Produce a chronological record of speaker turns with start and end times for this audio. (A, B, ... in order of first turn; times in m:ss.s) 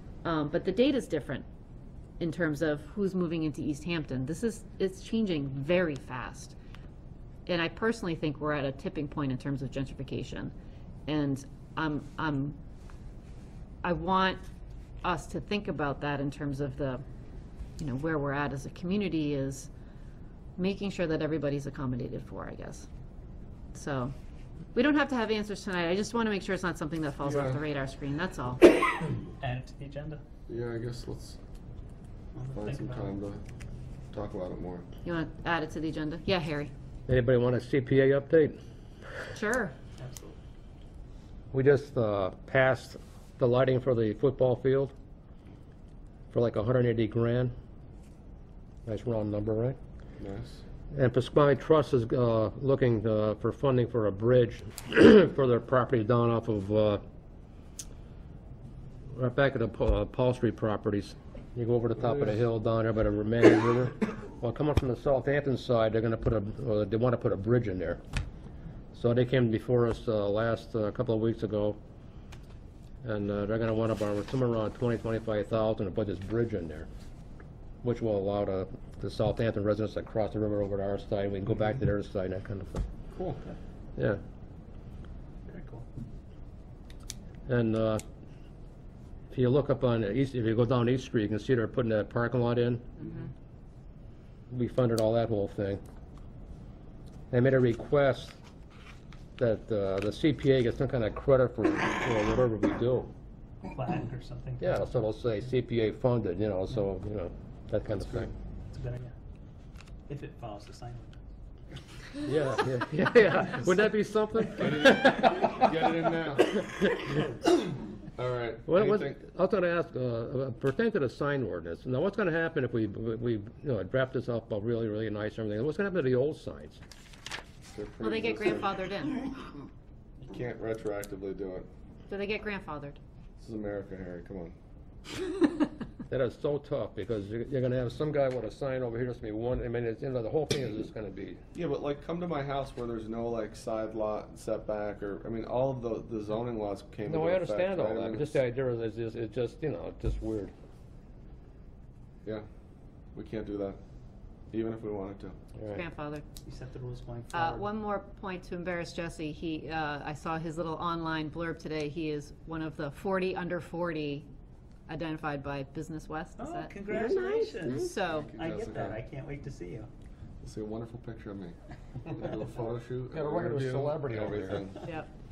0:00.2-0:01.4 A
0:02.2-0:06.6 A
0:07.4-0:10.5 A
0:11.1-0:12.6 A
0:13.8-0:14.4 A
0:15.0-0:17.0 A
0:17.8-0:19.7 A
0:20.6-0:22.9 A
0:23.7-0:24.1 A
0:24.7-0:28.6 A
0:27.2-0:27.6 B
0:29.4-0:30.2 C
0:30.5-0:31.4 B
0:32.3-0:33.1 C
0:32.5-0:33.4 B
0:34.1-0:34.8 B
0:35.0-0:36.7 A
0:37.1-0:38.6 D
0:39.3-0:39.7 A
0:40.0-0:40.4 C
0:41.5-0:44.9 D
0:46.3-0:47.5 D
0:48.8-0:49.8 D
0:50.2-0:50.6 B
0:50.9-0:57.0 D
0:59.1-1:08.0 D
1:08.9-1:11.8 D
1:13.0-1:16.9 D
1:17.8-1:22.8 D
1:23.1-1:23.4 B
1:25.4-1:25.8 C
1:27.5-1:28.0 D
1:29.3-1:32.8 D
1:34.5-1:35.8 D
1:37.3-1:38.4 D
1:39.4-1:43.1 D
1:43.7-1:44.8 C
1:44.6-1:48.3 D
1:47.9-1:48.3 B
1:48.7-1:49.1 C
1:50.1-1:51.2 C
1:52.2-1:55.9 D
1:54.6-1:56.7 B
1:58.2-1:59.2 B
1:58.7-2:06.8 D
2:07.7-2:08.7 B
2:08.0-2:09.3 A
2:10.2-2:11.7 B
2:12.1-2:13.0 A
2:13.4-2:14.5 B
2:16.1-2:21.4 D
2:21.5-2:28.3 B
2:27.0-2:30.5 D
2:33.1-2:33.8 B
2:34.5-2:35.4 B
2:35.6-2:35.8 D
2:35.7-2:36.2 A
2:36.4-2:37.7 C
2:37.3-2:44.3 A
2:44.9-2:48.3 A
2:46.4-2:49.9 C
2:48.2-2:49.0 B
2:50.4-2:51.6 B
2:52.1-2:54.8 B
2:53.1-2:54.6 D